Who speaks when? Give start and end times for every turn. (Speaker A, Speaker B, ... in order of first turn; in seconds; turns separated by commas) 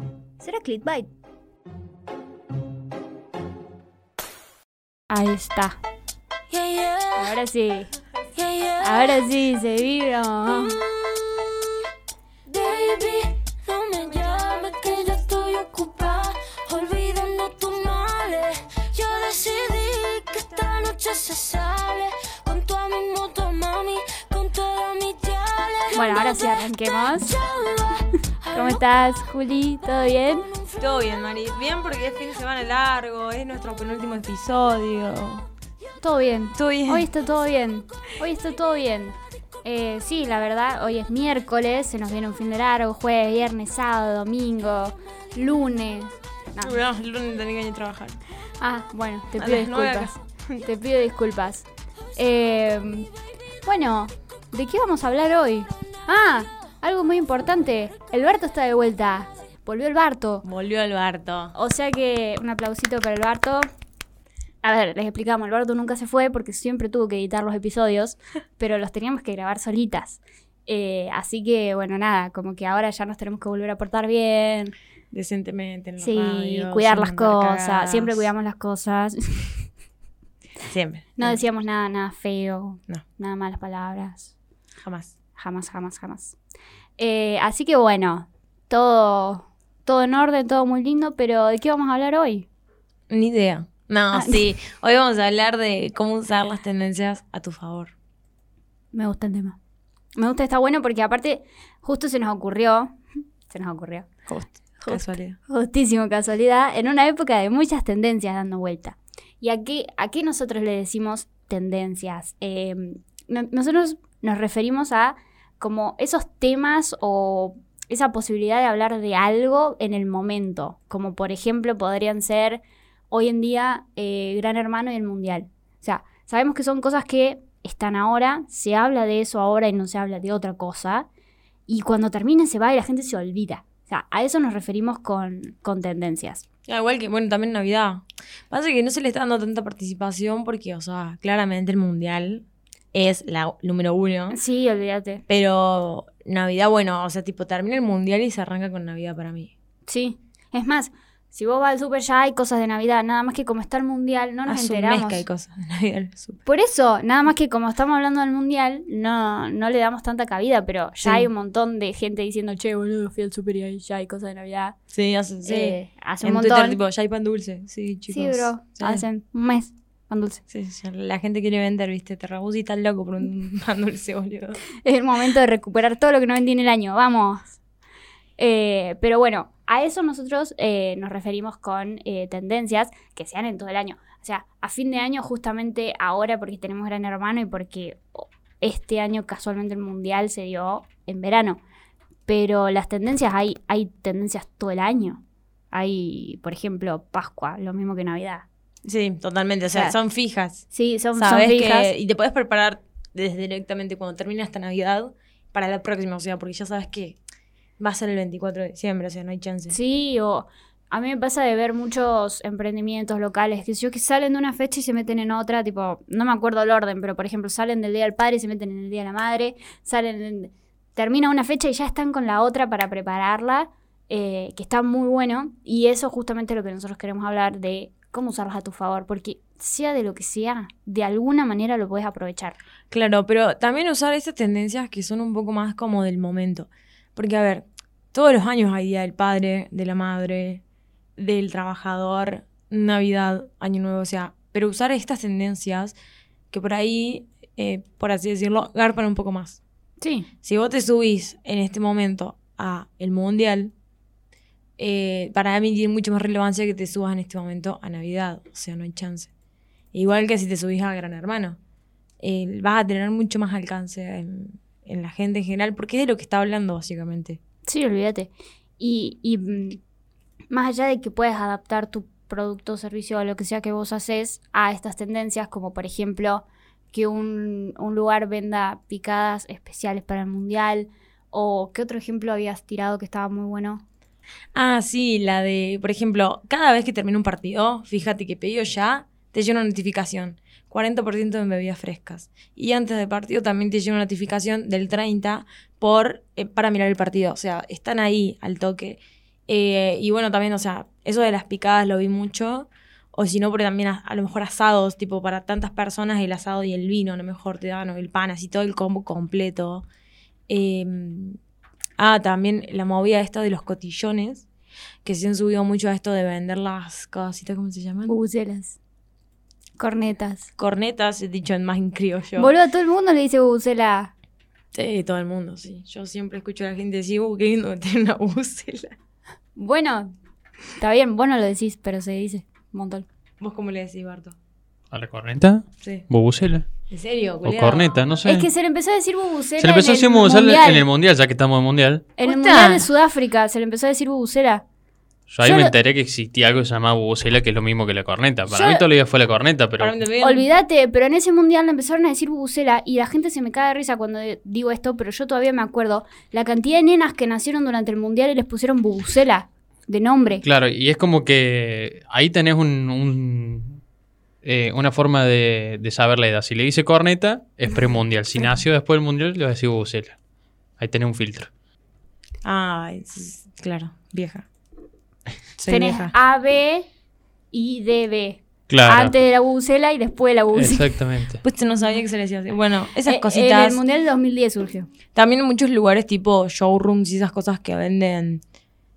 Speaker A: 0.4-1.1, Speaker A: 5.1-5.8, Speaker B: 6.5-7.3, Speaker A: 7.2-7.9, Speaker B: 8.3-9.3, Speaker A: 8.8-10.8, Speaker B: 10.5-11.9, Speaker B: 12.5-28.8, Speaker A: 25.9-27.4, Speaker A: 28.5-30.5, Speaker C: 30.8-35.4, Speaker A: 36.0-46.8, Speaker C: 36.5-37.1, Speaker C: 46.6-48.2, Speaker A: 48.6-53.1, Speaker C: 49.4-50.6, Speaker A: 53.6-60.4, Speaker C: 60.4-61.5, Speaker A: 61.5-63.6, Speaker A: 64.6-74.7, Speaker C: 75.1-78.3, Speaker A: 76.0-79.7, Speaker C: 80.7-81.4, Speaker A: 81.2-84.3, Speaker C: 84.8-85.1, Speaker A: 85.4-86.3, Speaker A: 87.0-92.5, Speaker C: 93.1-97.9, Speaker A: 94.1-94.4, Speaker A: 98.9-99.6, Speaker A: 100.2-103.0, Speaker A: 103.5-131.1, Speaker C: 104.3-105.4, Speaker A: 131.7-136.4, Speaker C: 136.7-144.4, Speaker A: 144.3-145.2, Speaker C: 145.3-149.5, Speaker A: 149.8-155.2, Speaker C: 154.4-156.4, Speaker A: 156.4-164.8, Speaker C: 161.0-161.3, Speaker C: 164.9-169.1, Speaker A: 165.4-166.8, Speaker A: 168.1-170.4, Speaker C: 170.5-174.6, Speaker A: 174.8-177.6, Speaker A: 178.4-191.6, Speaker A: 192.2-198.4, Speaker C: 198.8-207.2, Speaker A: 200.7-201.9, Speaker C: 207.8-209.8, Speaker A: 209.7-232.6, Speaker C: 232.9-240.6, Speaker C: 241.2-245.9, Speaker C: 246.5-249.6, Speaker A: 250.0-250.3, Speaker C: 250.4-253.7, Speaker C: 254.8-259.3, Speaker C: 259.9-261.6, Speaker C: 262.2-267.4, Speaker A: 267.6-269.8, Speaker A: 270.5-283.8, Speaker C: 284.5-309.9, Speaker C: 310.5-311.4, Speaker C: 312.0-314.5, Speaker C: 315.0-318.1, Speaker A: 318.1-318.8, Speaker A: 319.8-320.5, Speaker C: 320.6-322.5, Speaker A: 322.4-324.1, Speaker C: 324.7-328.9, Speaker A: 329.6-330.1, Speaker A: 330.8-333.1, Speaker C: 333.4-334.3, Speaker D: 334.9-336.7, Speaker C: 336.9-338.0, Speaker D: 337.4-338.5, Speaker A: 338.2-340.8, Speaker D: 339.6-342.1, Speaker A: 342.2-344.6, Speaker C: 342.2-342.9, Speaker D: 345.3-349.9, Speaker A: 345.4-345.7, Speaker A: 348.5-348.8, Speaker C: 349.8-350.5, Speaker A: 350.2-360.4, Speaker D: 360.4-363.8, Speaker D: 364.4-370.1, Speaker D: 370.8-371.5, Speaker C: 372.4-374.4, Speaker C: 375.6-376.1, Speaker A: 375.7-376.9, Speaker A: 377.5-380.9, Speaker D: 378.7-379.1, Speaker D: 380.5-381.4, Speaker C: 381.4-383.8, Speaker A: 383.0-384.9, Speaker C: 385.1-388.4